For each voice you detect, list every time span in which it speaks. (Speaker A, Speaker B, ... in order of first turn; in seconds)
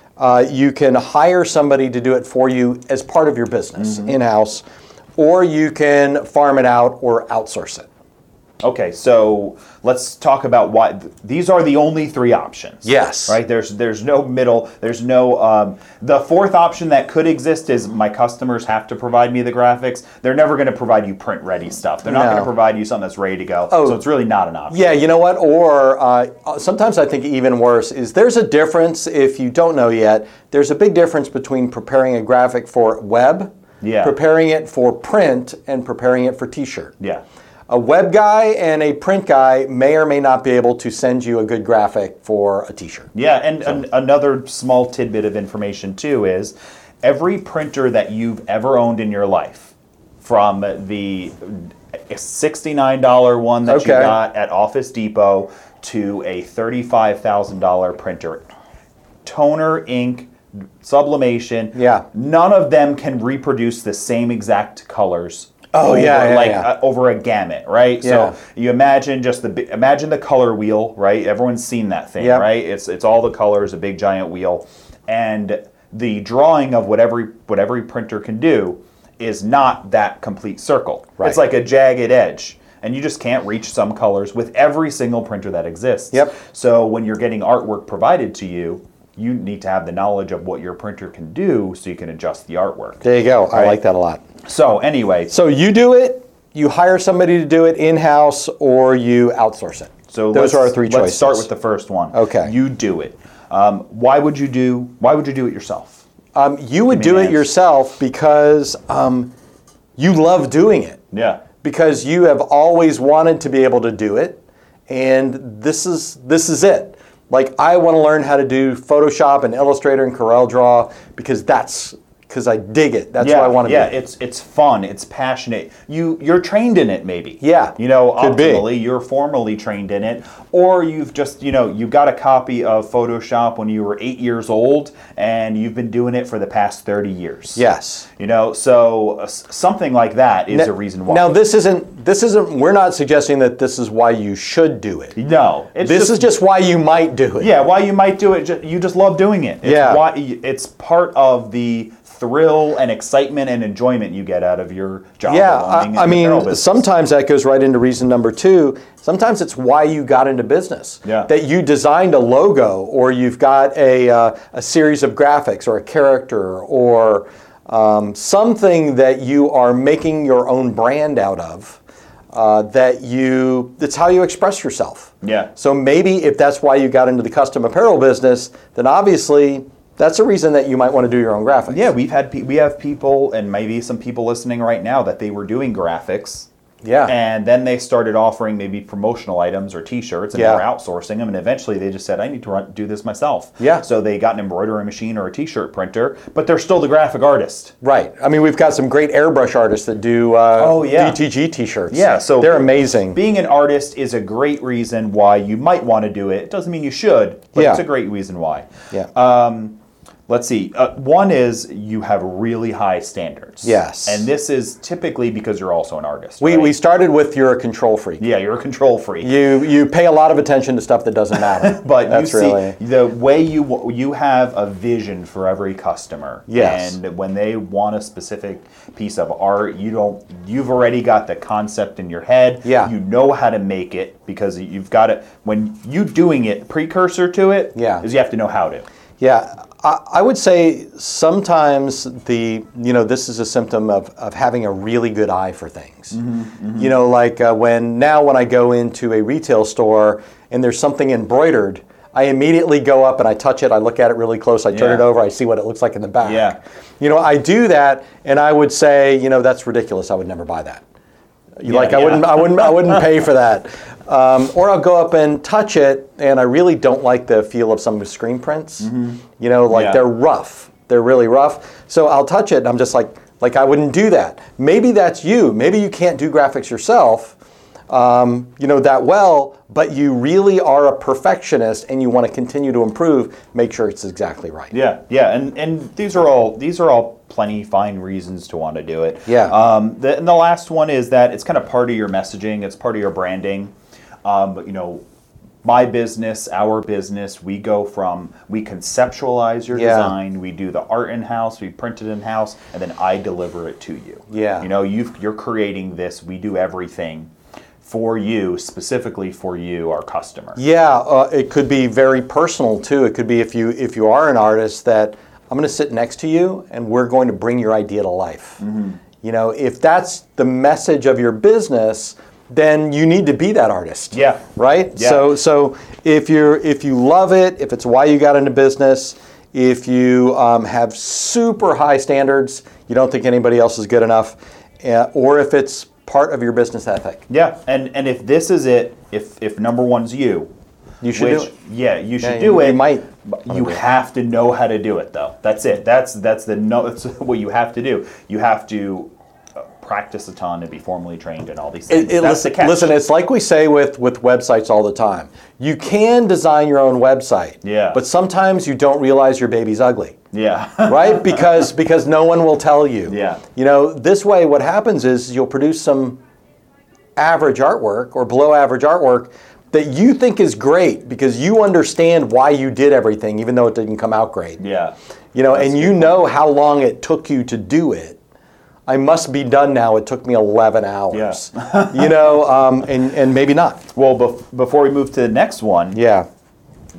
Speaker A: 0.2-4.7, 5.2-7.9, 12.8-13.4, 22.1-22.5, 23.7-24.0, 24.7-33.5, 34.0-37.0, 37.7-43.1, 53.7-54.2, 61.8-62.1, 65.7-66.7, 68.0-68.3, 72.2-72.5, 93.0-94.2, 95.3-101.5, 102.1-102.5, 106.3-109.3, 110.0-111.0, 111.6-123.9, 127.4-128.7, 137.6-138.1, 140.5-145.2, 145.8-147.5, 149.6-150.0, 155.3-171.8, 172.3-181.8, 186.8-187.1, 190.3-190.6, 193.6-193.8, 197.8-203.2, 207.6-207.8, 213.6-214.3, 216.4-218.2, 219.2-222.8, 226.5-227.0, 232.6-232.9, 237.8-238.1, 239.2-246.2, 246.8-260.8, 261.6-277.4, 277.9-284.7, 289.3-289.6, 299.7-300.1, 304.3-304.7, 310.6-318.6, 319.2-337.3, 341.0-341.5, 342.2-343.8, 351.9-360.2, 360.9-366.2, 367.2-374.6, 375.3-378.2, 378.9-383.8, 385.9-386.3
Speaker B: 3.8-4.1, 8.6-25.0, 33.8-34.1, 43.1-58.5, 59.2-93.8, 94.5-95.3, 100.1-106.0, 106.9-107.5, 111.1-111.4, 123.2-137.6, 138.2-141.3, 145.2-146.3, 147.4-156.9, 175.2-175.5, 181.7-186.5, 187.1-197.7, 200.6-201.2, 201.9-216.7, 218.2-219.3, 221.4-238.8, 246.1-246.9, 254.7-255.1, 256.2-256.6, 261.7-263.2, 268.8-270.0, 284.7-293.7, 294.2-295.0, 295.6-307.3, 307.8-310.6, 318.6-319.0, 324.1-325.3, 337.3-340.5, 341.1-353.0, 357.6-358.0, 360.3-361.6, 363.1-363.4, 374.6-374.9, 375.5-376.2, 381.1-382.3, 383.9-386.0